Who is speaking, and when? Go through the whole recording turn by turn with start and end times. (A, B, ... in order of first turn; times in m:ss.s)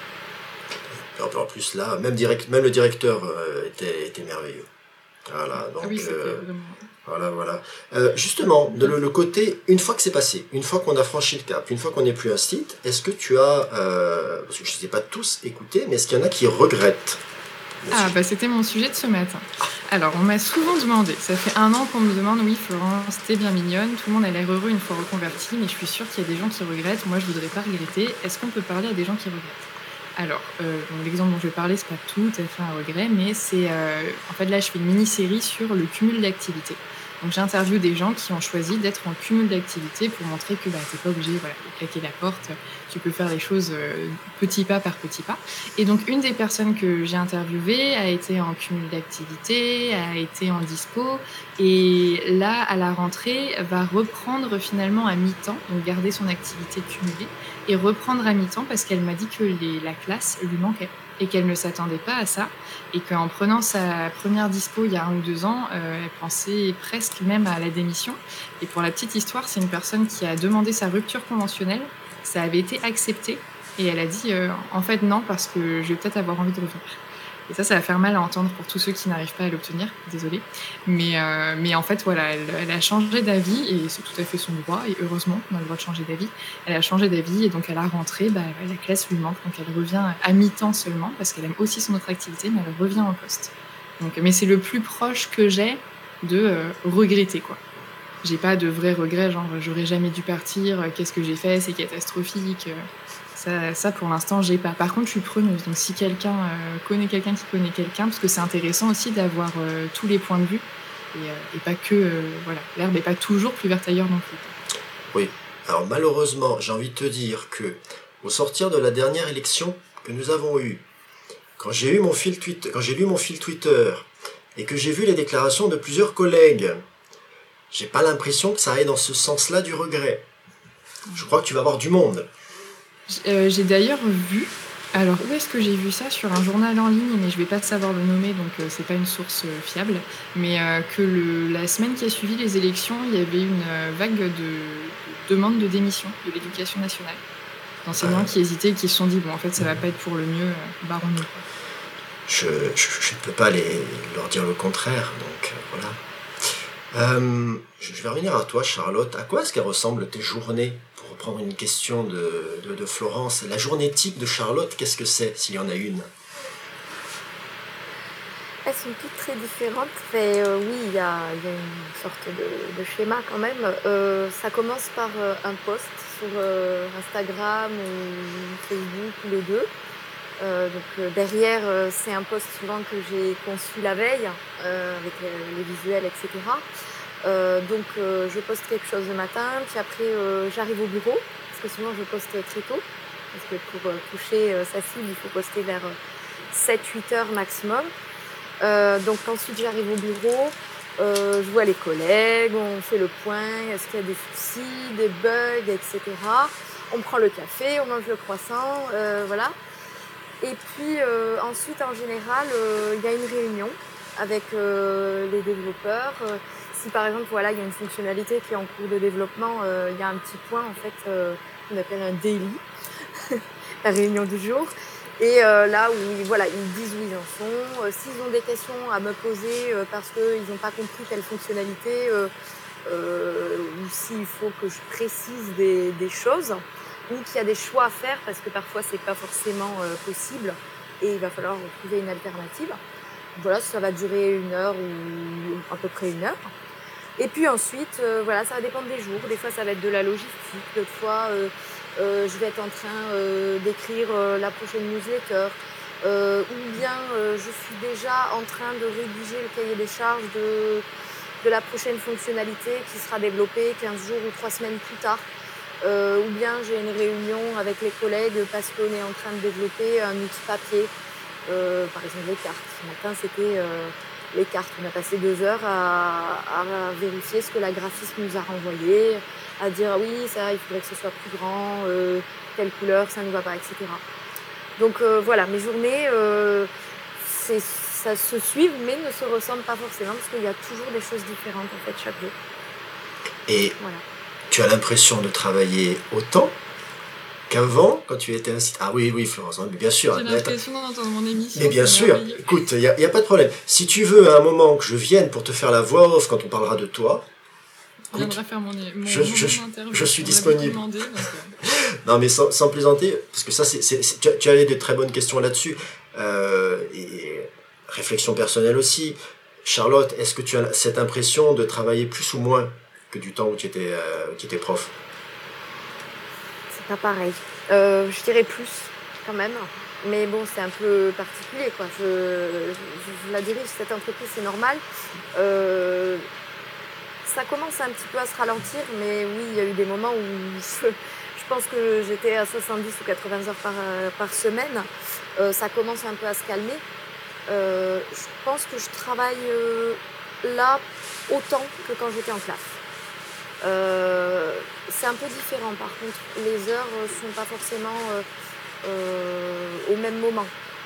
0:01.1-0:04.7 A
0:05.2-0:06.4 A
0:05.8-0:06.9 B
0:07.0-0:17.2 A
0:17.8-0:18.2 A
0:17.9-1:37.6 B
1:38.2-1:54.6 B
1:55.1-2:00.8 A
2:01.6-2:06.8 A
2:07.7-2:10.2 A
2:11.1-2:12.3 A
2:13.1-2:27.2 B
2:27.8-2:31.4 B
2:28.0-2:28.3 A
2:32.3-2:36.0 A
2:36.9-2:46.1 A
2:48.6-2:59.7 C
3:00.4-3:06.6 C
3:07.2-3:16.0 C
3:16.5-3:17.9 C
3:18.6-3:29.6 C
3:30.4-3:42.6 C
3:43.2-3:52.3 C
3:52.8-4:02.8 C
4:03.4-4:06.5 C
4:07.2-4:20.8 C
4:21.4-4:25.2 C
4:25.8-4:30.9 C
4:31.4-4:44.0 C
4:44.8-4:52.3 C
4:53.5-4:53.8 A
4:54.5-4:56.6 A
4:57.5-5:00.6 A
5:00.1-5:02.6 B
5:01.5-5:07.2 A
5:08.1-5:11.6 B
5:09.0-5:25.0 A
5:26.7-5:34.8 C
5:35.3-5:36.2 C
5:37.2-5:46.8 C
5:47.5-5:52.8 C
5:53.6-5:58.2 C
5:58.8-6:00.5 C